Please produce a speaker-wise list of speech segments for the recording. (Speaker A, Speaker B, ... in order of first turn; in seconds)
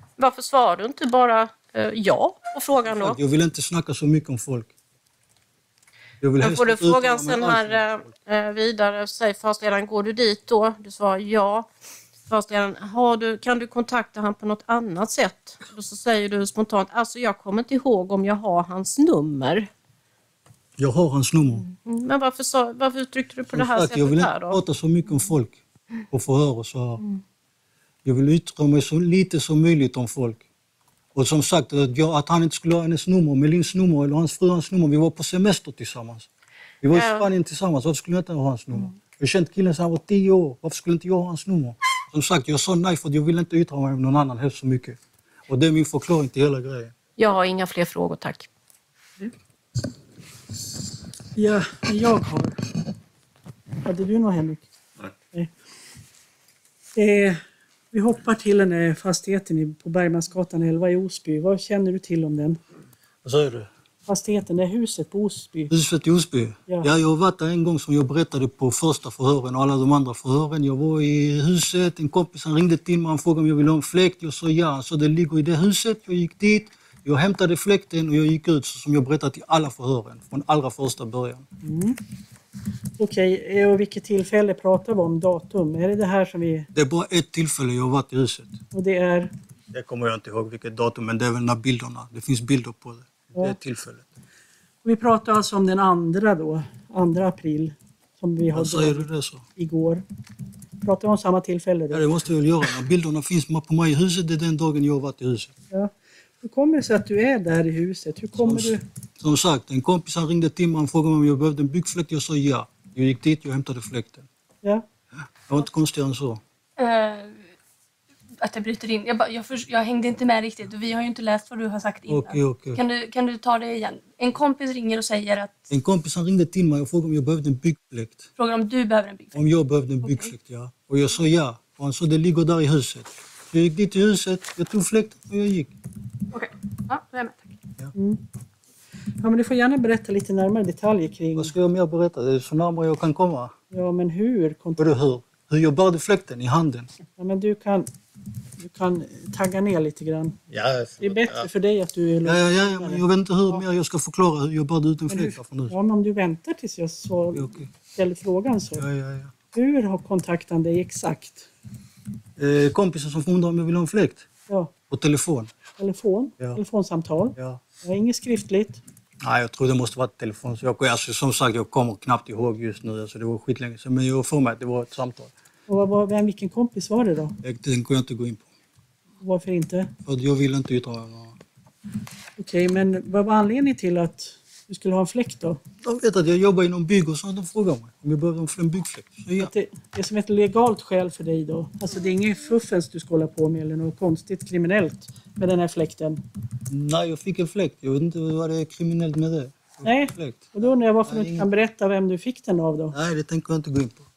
Speaker A: 0.2-3.2, 6.4-11.7, 12.3-19.7, 21.6-24.6, 36.9-37.2, 47.2-48.5
Speaker B: 2.9-4.7, 6.2-8.1, 20.8-21.6, 23.5-25.6, 26.1-27.0, 28.0-30.4, 31.1-36.3, 36.8-46.9, 63.2-63.7, 65.7-81.5, 86.7-88.6, 89.7-94.1, 98.5-99.4, 101.9-105.5, 108.3-114.3, 115.4-116.4, 122.1-122.8, 125.7-128.3, 129.3-135.7, 141.3-143.5, 144.8-146.9, 150.5-151.5, 152.2-155.7, 157.3-157.7, 158.8-159.3, 162.4-164.3, 164.9-165.5, 167.3-167.6, 169.2-175.3, 177.4-178.5, 180.0-181.4, 185.8-189.5, 196.7-201.5, 202.9-204.1
Speaker C: 51.4-52.6, 53.8-54.7, 56.9-62.6, 64.1-65.7, 81.6-82.0, 83.0-86.7, 88.7-89.3, 94.8-100.0, 100.8-102.1, 105.7-108.8, 137.9-138.2, 139.2-141.5, 143.7-144.9, 147.2-147.9, 148.6-150.4, 151.0-153.0, 155.1-158.8, 159.5-161.5, 165.8-168.8, 175.7-177.4, 179.2-179.9, 182.4-185.6, 189.4-196.2, 199.8-202.9
Speaker D: 116.8-117.5, 118.4-125.6, 128.4-129.3, 130.0-130.3, 136.3-137.6